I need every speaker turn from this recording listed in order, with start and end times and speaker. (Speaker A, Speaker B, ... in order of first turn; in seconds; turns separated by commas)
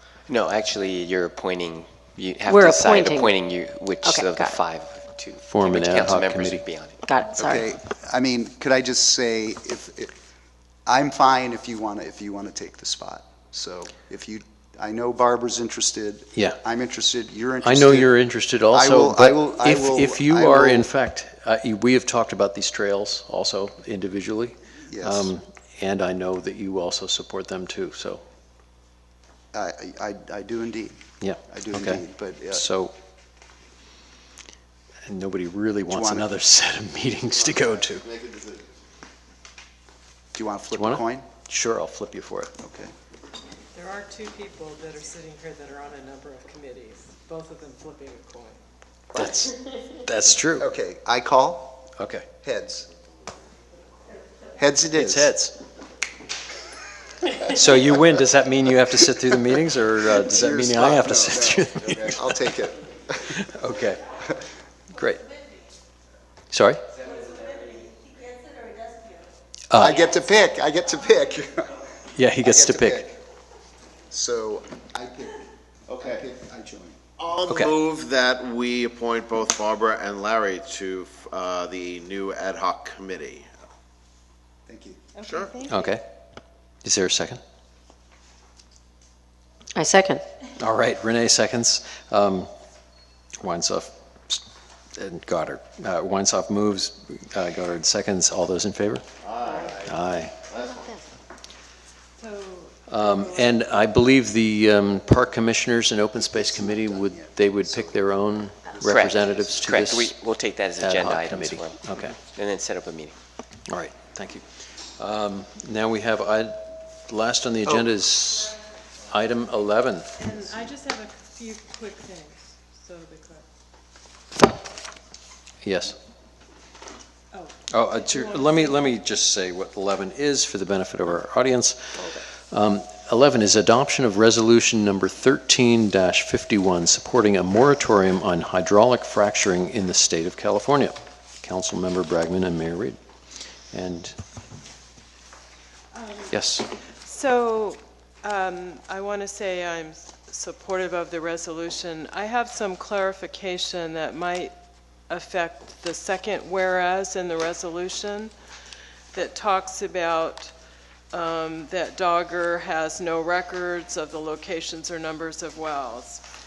Speaker A: 0.3-7.0, Speaker B: 2.5-3.4, Speaker B: 4.0-4.6, Speaker C: 5.5-6.7, Speaker B: 7.0-7.7, Speaker D: 7.3-10.1, Speaker D: 10.9-18.1, Speaker C: 17.6-28.2, Speaker D: 18.7-20.9, Speaker D: 24.9-25.3, Speaker D: 29.5-32.7, Speaker C: 31.2-32.9, Speaker C: 35.1-38.1, Speaker D: 35.9-36.3, Speaker E: 37.5-38.7, Speaker D: 40.3-41.3, Speaker C: 40.8-42.5, Speaker D: 42.6-42.9, Speaker F: 43.7-48.6, Speaker C: 49.1-50.7, Speaker D: 50.6-51.9, Speaker C: 52.0-52.3, Speaker D: 52.4-52.9, Speaker D: 54.5-55.3, Speaker C: 55.0-55.5, Speaker C: 57.4-62.4, Speaker D: 60.2-63.4, Speaker C: 63.3-64.1, Speaker C: 64.9-65.3, Speaker C: 66.5-66.8, Speaker C: 69.7-70.0, Speaker D: 69.8-71.8, Speaker C: 72.2-73.1, Speaker D: 72.4-73.1, Speaker D: 74.1-77.0, Speaker E: 77.2-83.5, Speaker D: 84.7-85.0, Speaker E: 85.2-85.6, Speaker C: 85.6-86.0, Speaker C: 86.8-87.4, Speaker B: 89.8-90.2, Speaker C: 90.6-92.5, Speaker C: 93.4-94.4, Speaker C: 95.0-99.0, Speaker E: 99.2-101.0, Speaker C: 99.8-100.4, Speaker F: 102.2-103.9, Speaker C: 102.9-110.2, Speaker D: 106.2-109.9, Speaker A: 108.9-113.2, Speaker C: 110.8-112.2, Speaker C: 113.7-118.6, Speaker C: 119.1-120.1, Speaker F: 120.2-123.5, Speaker C: 125.6-126.0, Speaker F: 127.3-128.9, Speaker C: 127.7-143.0, Speaker B: 132.0-132.2, Speaker C: 143.7-144.2, Speaker F: 145.9-146.3, Speaker C: 146.3-146.7, Speaker F: 147.0-154.5, Speaker F: 155.1-158.3, Speaker F: 159.1-160.5, Speaker F: 161.1-166.2